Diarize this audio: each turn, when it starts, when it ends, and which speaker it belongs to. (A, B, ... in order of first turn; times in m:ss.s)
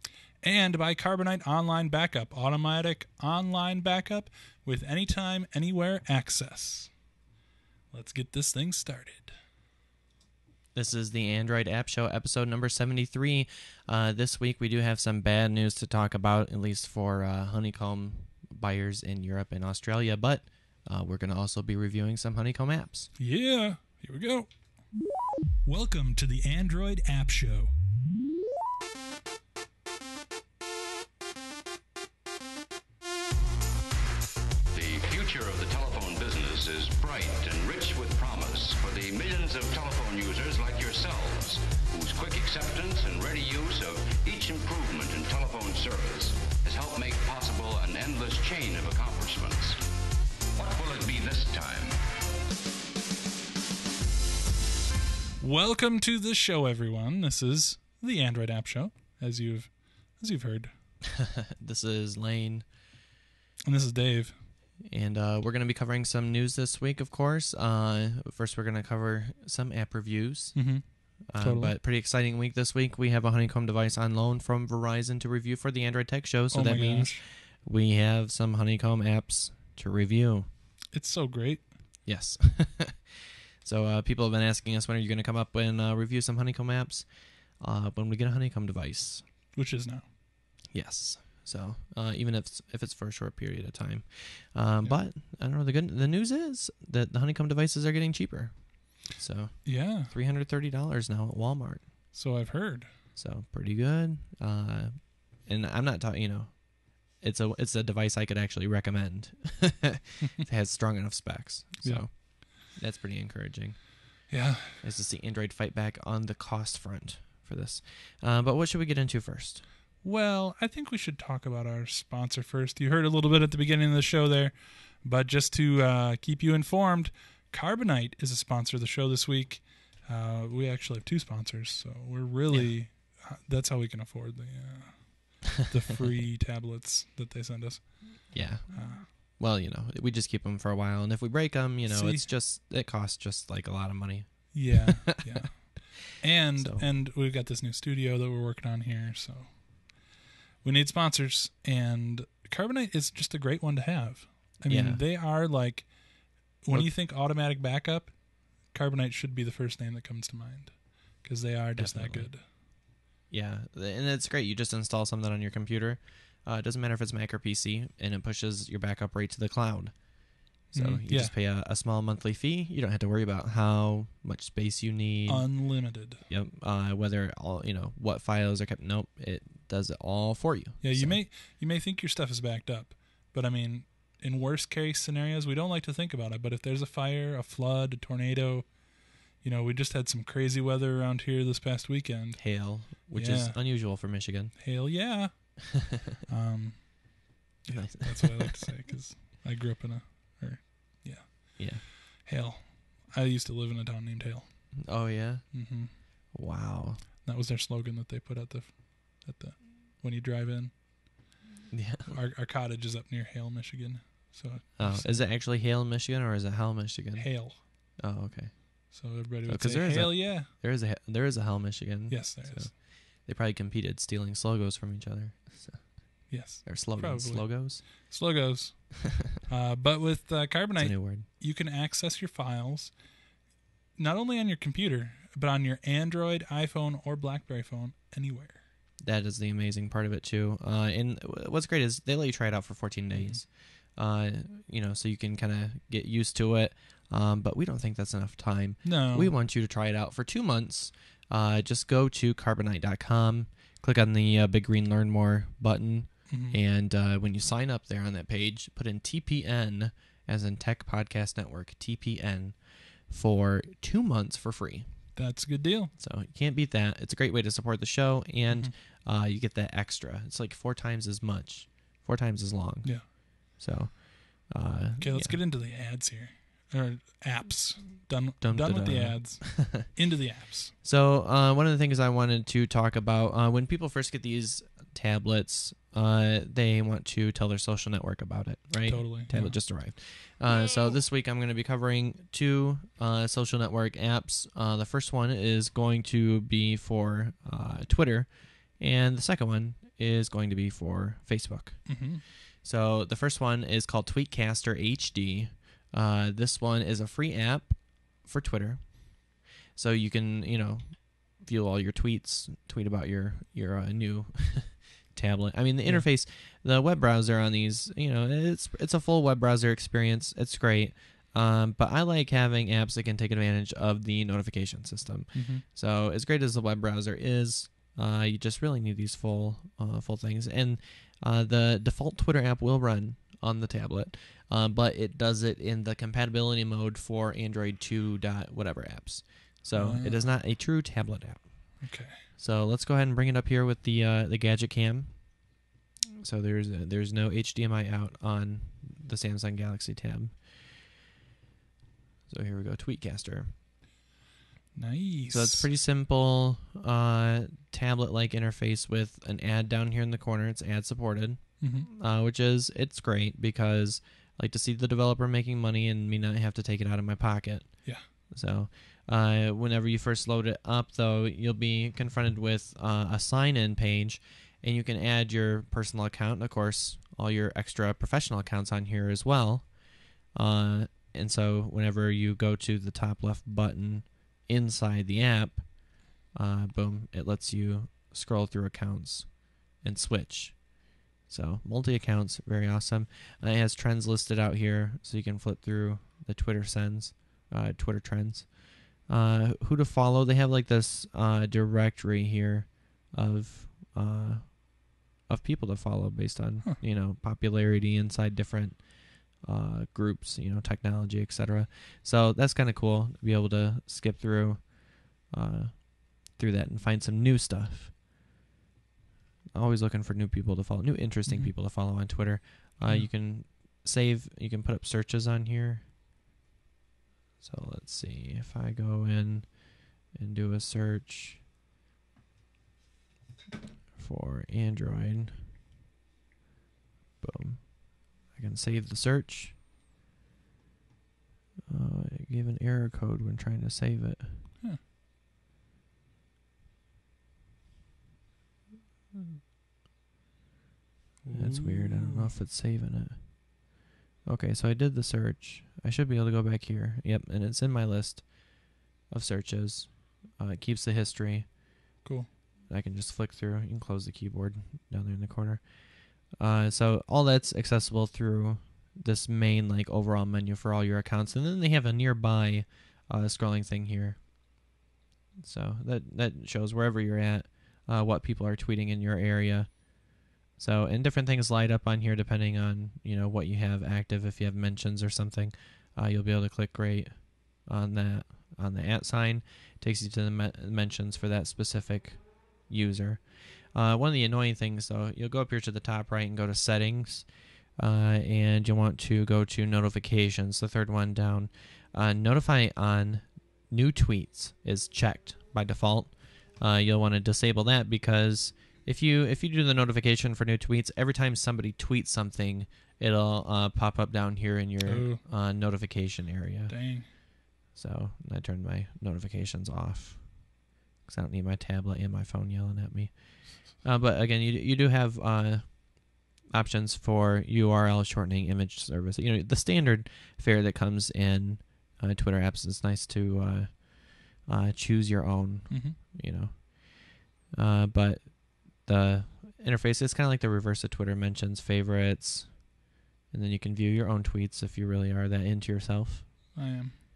0:00.4-0:07.0 A
0:07.9-0:09.3 A
0:10.7-0:23.1 B
0:23.2-0:24.9 A
0:25.6-0:27.7 A
0:34.7-0:49.8 C
0:50.5-0:52.0 C
0:55.4-1:00.7 A
1:01.1-1:02.7 B
1:03.7-1:04.4 A
1:04.8-1:20.5 B
1:10.5-1:11.8 A
1:16.5-1:17.2 A
1:20.9-1:21.8 A
1:22.0-1:29.2 B
1:29.5-1:30.0 A
1:30.7-1:41.9 B
1:39.6-1:40.1 A
1:42.1-1:42.9 A
1:43.1-1:59.6 B
1:51.8-1:52.4 A
1:54.3-1:54.8 A
2:00.0-2:19.1 A
2:12.5-2:12.8 B
2:18.3-2:25.4 B
2:21.8-2:22.3 A
2:24.5-2:30.1 A
2:26.5-2:26.9 B
2:30.6-2:42.4 A
2:34.6-2:35.0 B
2:41.8-2:42.5 B
2:43.3-3:01.2 B
2:50.7-2:51.3 A
2:55.3-2:56.2 A
3:00.8-3:26.3 A
3:12.4-3:14.6 B
3:17.7-3:18.7 B
3:21.6-3:21.8 B
3:24.8-3:27.0 B
3:27.2-3:31.2 A
3:31.7-3:32.2 B
3:32.0-3:35.2 A
3:34.8-3:47.8 B
3:37.2-3:38.0 A
3:38.9-3:40.5 A
3:42.1-3:42.7 A
3:46.3-3:53.1 A
3:50.8-3:51.3 B
3:54.0-3:58.6 A
3:59.0-4:25.1 B
4:03.1-4:03.4 A
4:08.8-4:09.3 A
4:16.3-4:16.6 A
4:25.1-4:25.9 A
4:26.0-4:35.4 B
4:32.8-4:33.1 A
4:35.0-4:40.7 A
4:38.4-4:39.9 B
4:40.8-5:45.6 B
4:48.8-4:49.6 A
5:01.9-5:02.2 A
5:25.3-5:25.6 A
5:39.7-5:40.3 A
5:41.8-5:42.3 A
5:46.2-5:50.4 B
5:52.3-5:53.5 B
5:54.7-5:55.7 A
5:55.3-6:19.8 B
6:01.6-6:01.9 A
6:20.3-6:57.9 B
6:59.5-7:05.9 B
7:01.3-7:01.5 A
7:02.8-7:03.1 A
7:07.4-7:11.4 B
7:13.9-7:15.4 B
7:17.2-7:19.6 B
7:21.7-7:24.5 B
7:31.2-7:32.3 A
7:31.3-7:41.6 B
7:42.0-7:42.3 A
7:42.7-7:54.6 B
7:55.4-8:37.2 B
8:34.8-8:35.2 A
8:36.7-8:37.1 A
8:37.7-9:06.5 B
8:55.7-8:56.0 A
9:06.5-9:07.0 A